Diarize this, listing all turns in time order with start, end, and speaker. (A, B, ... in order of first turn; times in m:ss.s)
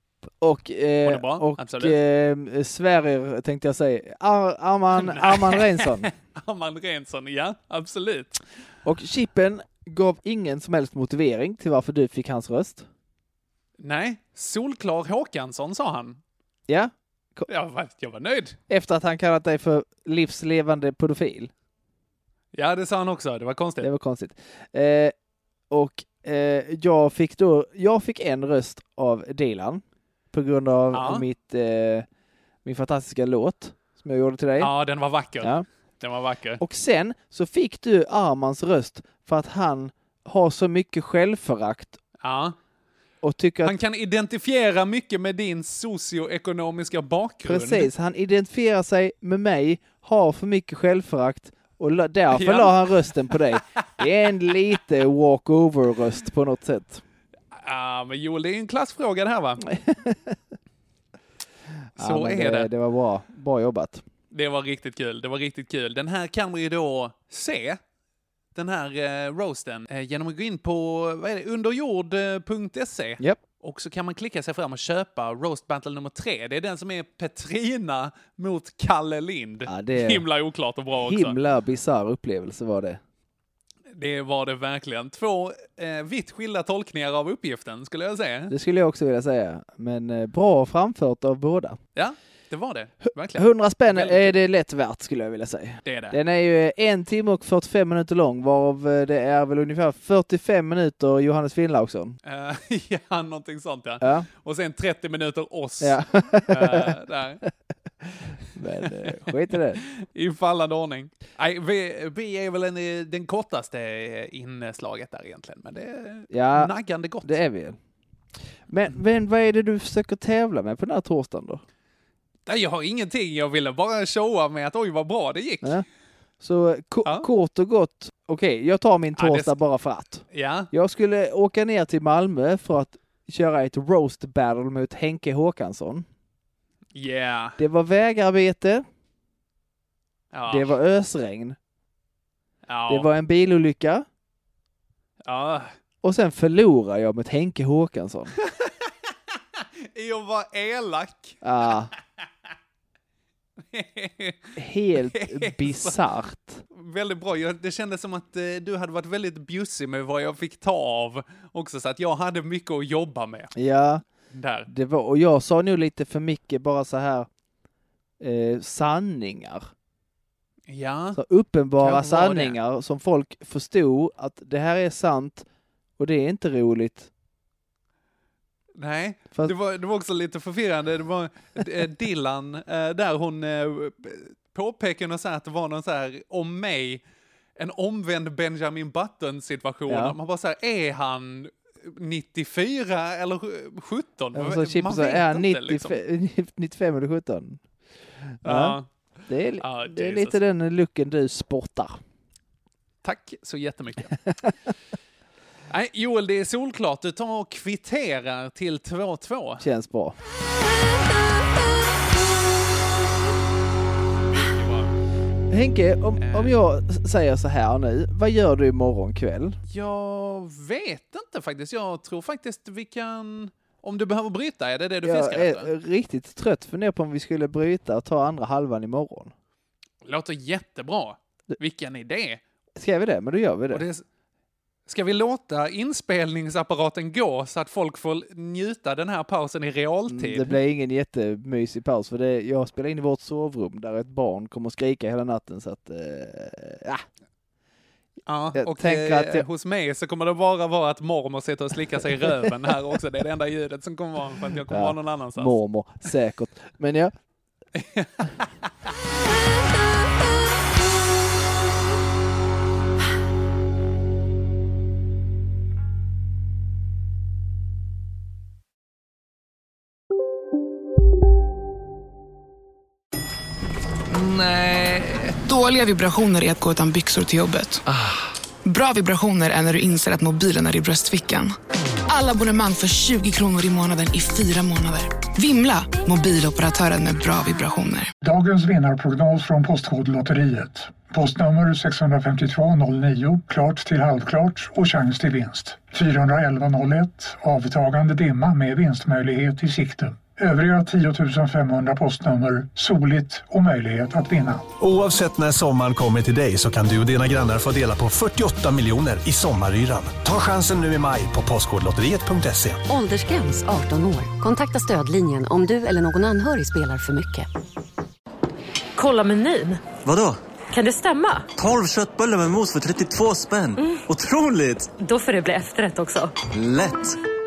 0:00.4-0:06.1 A
0:01.0-0:02.0 B
0:05.0-0:08.4 B
0:08.8-0:12.9 A
0:13.8-0:16.2 B
0:16.7-0:17.4 A
0:17.5-0:18.6 B
0:18.7-0:21.5 A
0:22.5-0:23.9 B
0:23.8-0:25.1 A
0:25.7-0:32.1 A
0:30.9-0:31.2 B
0:32.6-0:34.7 A
0:34.6-0:36.6 B
0:35.4-0:35.6 A
0:36.6-0:42.0 A
0:42.2-0:42.6 B
0:43.2-0:43.7 A
0:43.6-0:47.9 B
0:47.4-0:57.0 A
0:52.3-0:53.6 B
0:57.5-0:59.6 B
0:59.7-1:00.4 A
1:02.0-1:04.0 A
1:02.0-1:02.7 B
1:04.3-1:07.8 B
1:08.5-1:21.4 B
1:19.6-1:20.2 A
1:20.9-1:23.0 A
1:23.9-1:28.5 B
1:28.5-1:31.8 A
1:32.0-1:34.3 B
1:33.4-1:42.2 A
1:35.8-1:36.2 B
1:42.2-1:47.4 B
1:44.0-1:44.3 A
1:45.8-1:47.0 A
1:48.5-1:49.8 A
1:48.6-1:49.3 B
1:49.8-1:57.4 B
1:56.3-1:56.7 A
1:57.2-1:57.8 A
1:58.7-2:01.6 A
2:02.4-2:05.8 B
2:06.4-2:16.1 A
2:09.2-2:09.6 B
2:10.3-2:10.7 B
2:16.9-2:17.6 B
2:17.6-2:18.8 A
2:20.3-2:20.7 B
2:20.5-2:21.6 A
2:22.7-2:23.1 B
2:22.9-2:24.0 A
2:25.2-2:25.7 B
2:26.0-2:28.3 A
2:28.4-2:28.9 B
2:29.9-2:31.4 B
2:31.4-2:31.9 A
2:33.7-2:36.0 B
2:34.6-2:36.6 A
2:36.7-2:43.5 B
2:43.5-2:44.0 A
2:44.3-2:44.7 B
2:44.7-2:47.3 A
2:48.2-2:49.7 A
2:50.7-2:51.2 B
2:51.2-2:55.4 A
2:51.8-2:52.6 B
2:56.0-2:57.1 A
2:58.8-3:07.0 B
3:07.6-3:16.0 B
3:09.9-3:10.2 A
3:14.4-3:17.6 A
3:18.3-3:22.0 A
3:18.4-3:18.9 B
3:19.6-3:20.4 B
3:23.0-3:24.2 B
3:25.7-3:29.6 B
3:29.6-3:30.2 A
3:34.3-3:34.9 B
3:35.5-3:39.6 A
3:36.2-3:36.5 B
3:39.7-3:45.7 B
3:45.0-3:49.3 A
3:50.0-3:52.4 B
3:52.8-3:53.8 A
3:53.7-3:54.0 B
3:54.9-4:00.6 B
4:00.1-4:07.0 A
4:08.2-4:15.5 B
4:08.5-4:09.4 A
4:14.7-4:17.1 A
4:17.7-4:19.2 B
4:34.1-4:37.8 C
4:38.6-4:41.5 C
4:42.1-4:48.1 C
4:48.2-5:04.7 D
5:04.8-5:12.8 E
5:12.9-5:17.5 F
5:19.0-5:19.9 G
5:20.0-5:20.4 H
5:20.7-5:21.5 G
5:21.6-5:24.9 H
5:23.8-5:24.0 G
5:24.9-5:26.3 G
5:26.5-5:27.2 H